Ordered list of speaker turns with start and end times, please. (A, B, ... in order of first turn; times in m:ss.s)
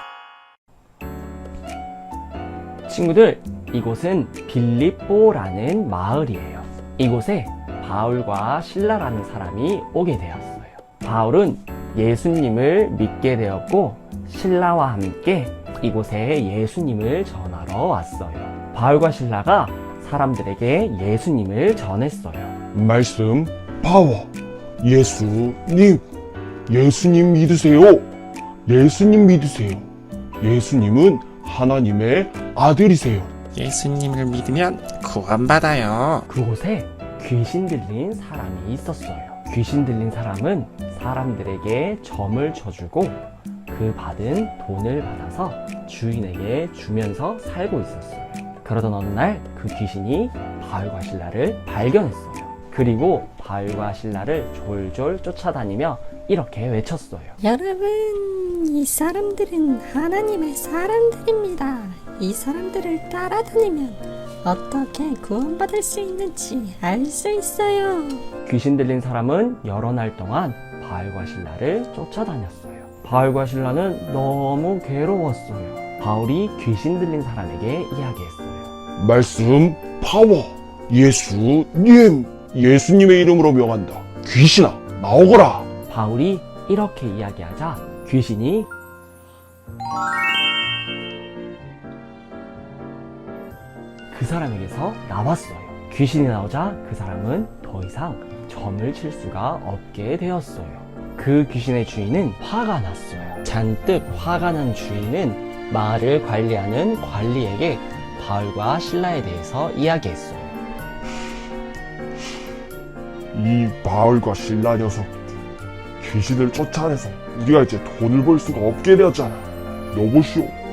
0:02.9-0:22.6 A
0:22.7-0:26.0 B
0:26.7-0:28.1 B
0:28.7-0:33.3 B
0:33.5-0:36.2 C
0:36.3-0:57.4 A
0:57.4-1:08.2 D
1:08.4-1:18.7 A
1:19.0-1:25.7 B
1:25.9-1:28.7 A
1:34.1-1:50.6 A
1:53.3-1:55.1 B
1:56.0-2:00.6 B